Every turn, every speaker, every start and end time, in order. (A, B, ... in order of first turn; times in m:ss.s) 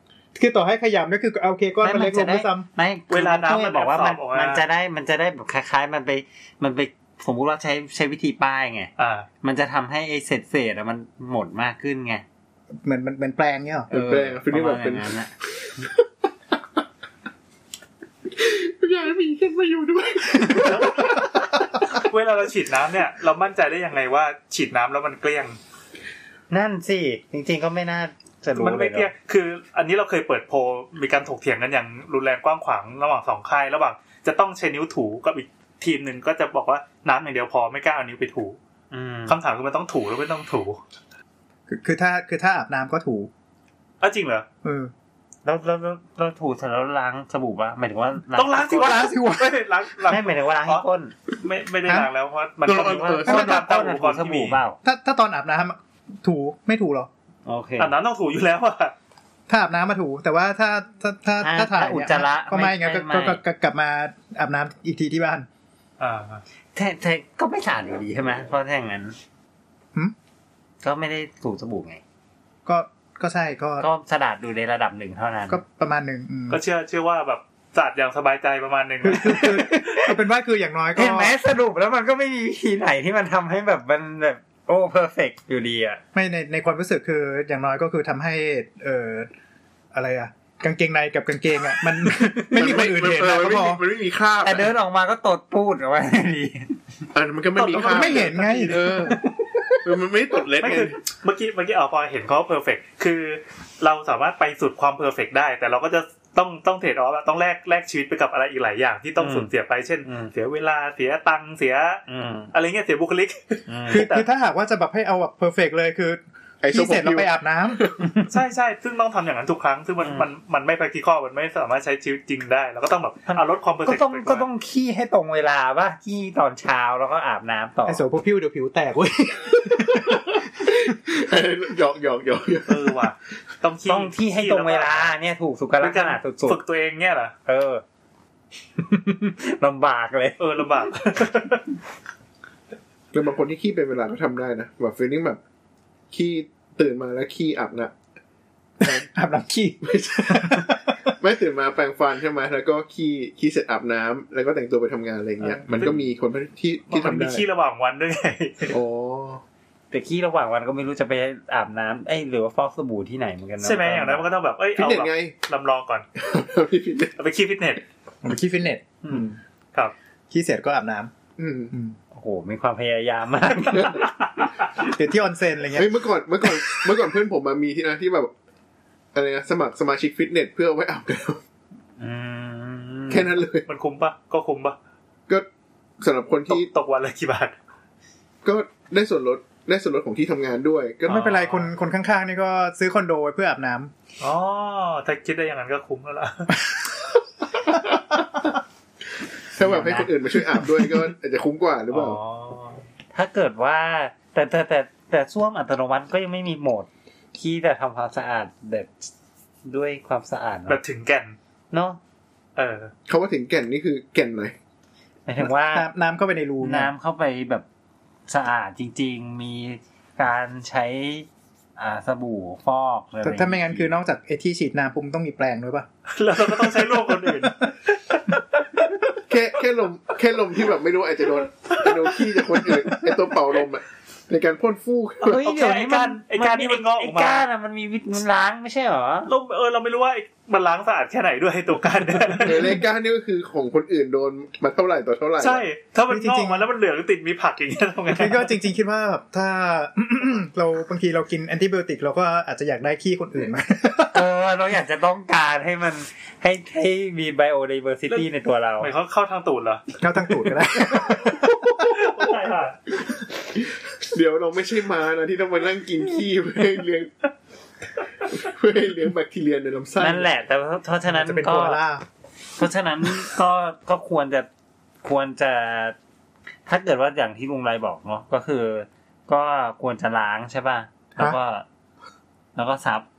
0:00.3-0:02.7 A
0:01.8-0:12.2 B
0:03.1-0:04.6 C
0:09.0-0:09.3 C
0:12.8-0:13.9 A
0:13.9-0:15.1 D
0:13.9-0:15.3 B
0:15.8-0:16.0 D
0:18.3-0:21.3 D
0:20.6-0:25.6 C
0:26.5-0:29.1 B
0:28.6-0:38.6 C
0:38.9-0:39.4 B
0:39.3-0:40.8 C
0:41.7-0:43.3 A
0:44.0-0:44.4 C
0:44.6-0:44.9 A
0:45.4-0:49.1 B
0:48.3-0:50.8 C
0:48.6-0:49.6 A
0:50.0-0:51.1 B
0:51.4-0:54.6 C
0:52.6-0:53.5 D
0:53.0-0:54.8 B
0:54.8-0:57.1 A
0:57.4-0:57.9 B
0:57.8-0:58.9 C
0:59.5-1:05.5 A
1:01.4-1:03.4 B
1:06.0-1:06.4 C
1:06.7-1:09.2 B
1:10.8-1:12.0 B
1:12.6-1:13.8 A
1:13.8-1:15.6 B
1:15.5-1:16.6 A
1:16.5-1:19.6 C
1:19.0-1:21.4 A
1:19.1-1:20.1 B
1:21.0-1:26.0 B
1:26.1-1:29.3 A
1:29.9-1:33.8 A
1:32.4-1:34.7 D
1:34.4-1:36.8 B
1:37.1-1:39.2 D
1:37.6-1:39.1 C
1:37.6-1:39.2 A
1:39.8-1:41.0 D
1:40.6-1:54.3 C
1:49.2-1:49.5 B
1:50.0-1:50.3 B
1:52.1-1:52.5 B
1:53.7-1:54.1 B
1:53.9-1:57.8 A
1:56.6-1:58.0 D
1:58.3-2:04.4 C
2:00.0-2:00.3 B
2:03.3-2:08.0 B
2:07.8-2:10.4 A
2:09.8-2:13.0 D
2:12.7-2:15.1 C
2:13.8-2:16.6 B
2:15.8-2:17.3 C
2:17.4-2:17.8 B
2:18.8-2:20.4 B
2:20.4-2:21.6 C
2:23.1-2:25.4 D
2:26.1-2:27.9 D
2:28.8-2:31.2 A
2:29.8-2:37.4 D
2:35.7-2:36.0 C
2:36.9-2:38.8 C
2:38.7-2:39.4 D
2:39.9-2:44.2 B
2:43.6-2:46.0 C
2:44.8-2:45.3 D
2:46.2-2:47.1 D
2:47.2-2:47.8 C
2:48.2-2:49.4 A
2:50.3-2:51.1 A
2:51.4-2:51.7 D
2:52.1-2:54.1 B
2:53.7-2:54.0 D
2:54.8-2:56.0 A
2:55.7-2:58.3 D
2:59.1-3:01.4 D
3:02.0-3:03.3 B
3:03.1-3:03.6 D
3:03.7-3:04.8 C
3:06.0-3:06.7 D
3:06.5-3:07.5 C
3:08.4-3:11.3 D
3:11.1-3:11.7 C
3:11.1-3:13.9 A
3:14.2-3:16.6 C
3:17.5-3:18.5 D
3:19.6-3:22.2 D
3:19.6-3:20.1 B
3:21.9-3:22.8 C
3:23.1-3:29.1 B
3:29.6-3:30.8 B
3:30.7-3:31.4 C
3:31.7-3:32.0 B
3:32.6-3:32.9 C
3:33.1-3:34.5 D
3:35.2-3:35.9 B
3:35.4-3:36.9 A
3:36.6-3:37.6 B
3:38.3-3:43.9 B
3:43.2-3:45.9 A
3:46.1-3:49.0 C
3:46.9-3:47.5 A
3:49.3-3:55.4 D
3:51.7-3:53.1 C
3:55.2-3:59.3 B
3:55.3-3:57.4 C
3:59.3-4:02.8 C
4:02.4-4:05.6 D
4:05.4-4:08.5 C
4:06.1-4:06.6 A
4:08.1-4:14.2 A
4:14.1-4:18.9 B
4:18.8-4:20.0 C
4:20.0-4:22.0 A
4:20.9-4:21.8 D
4:21.8-4:22.8 C
4:23.5-4:27.1 D
4:28.2-4:30.3 D
4:30.0-4:31.8 B
4:31.0-4:32.0 A
4:32.6-4:34.5 B
4:35.0-4:36.0 B
4:36.6-4:41.6 B
4:42.6-4:43.0 B